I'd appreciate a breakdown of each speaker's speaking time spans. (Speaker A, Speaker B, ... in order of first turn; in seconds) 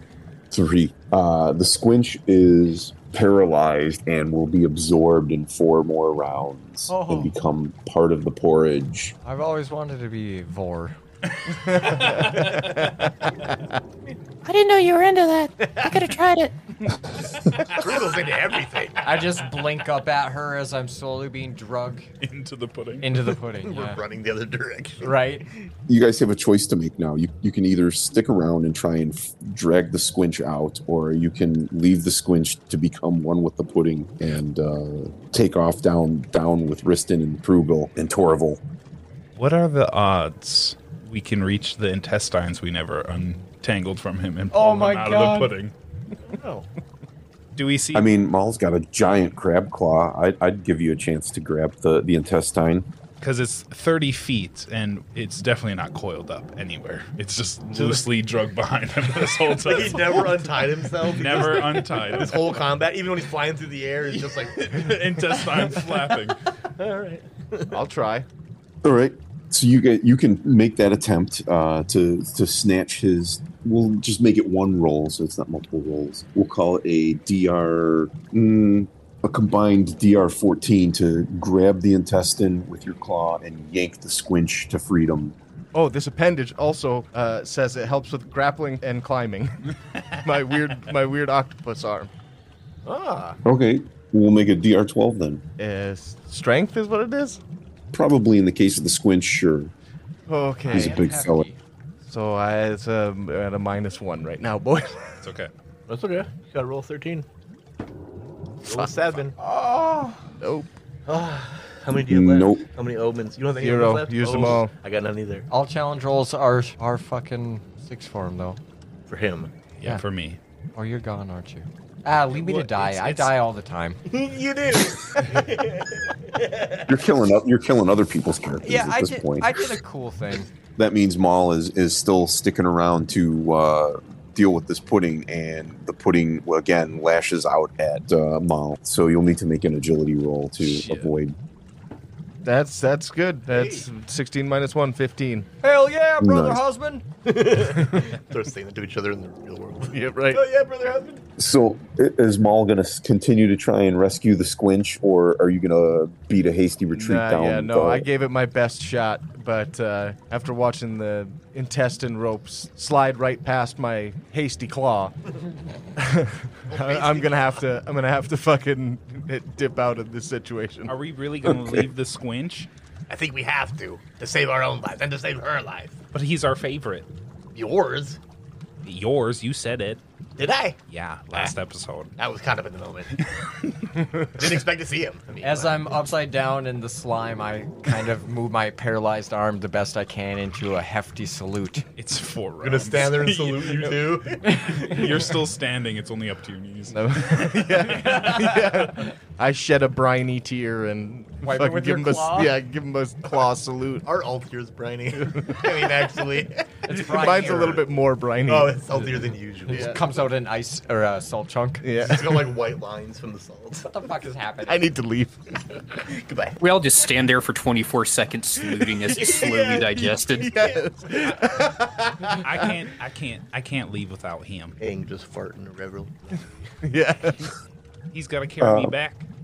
Speaker A: 0.5-9.2, 25.9-38.6, 47.9-52.9, 68.8-85.4, 93.4-95.4, 97.9-99.7, 100.7-101.5, 112.1-112.7, 126.9-129.6, 130.8-141.4, 146.2-146.6, 151.4-158.1, 171.4-171.9, 228.6-228.9
Speaker B: 6.9-7.3, 9.2-10.9, 19.0-22.1, 23.0-24.0, 25.0-25.4, 44.5-45.5, 100.6-101.6, 109.4-110.2, 115.5-118.6, 120.7-124.0, 128.6-130.5, 145.6-147.0, 185.4-191.8, 194.5-195.0, 198.1-198.4, 201.4-202.6, 206.9-207.8, 209.7-211.9, 213.9-214.9
Speaker C: 11.6-13.6, 67.7-68.3, 85.7-89.6, 90.2-92.1, 95.6-97.4, 100.3-101.0, 102.0-105.1, 110.4-110.7, 113.6-114.7, 142.4-145.5, 149.9-150.4, 156.9-165.1, 166.0-170.9, 196.9-204.1, 205.2-205.7, 207.0-208.8, 211.8-212.3, 214.7-215.4, 219.9-221.7, 226.8-227.5
Speaker D: 11.8-12.8, 22.2-23.1, 39.4-45.7, 47.6-48.1, 53.2-62.6, 64.6-66.4, 105.2-105.5, 119.8-120.4, 170.9-172.7, 176.1-177.1, 178.8-180.0, 180.9-182.1, 192.0-198.2, 222.4-224.8, 228.1-229.3
Speaker E: 14.4-16.5
Speaker F: 15.6-16.0, 17.7-19.2, 23.6-25.4, 46.2-46.7, 57.7-58.0, 59.5-65.9, 66.8-67.8, 92.8-93.4, 105.9-107.3, 108.7-109.3, 111.1-115.5, 119.1-119.5, 122.3-123.3, 124.1-126.9, 143.5-143.9, 147.3-151.2, 166.7-167.6, 173.1-176.0, 177.5-178.2, 180.4-180.8, 182.2-183.2, 184.4-186.0, 192.6-194.7, 204.1-206.7, 208.5-210.1, 212.0-213.9, 216.0-216.6, 219.0-219.9, 221.2-222.4, 224.8-226.4
Speaker G: 216.6-220.5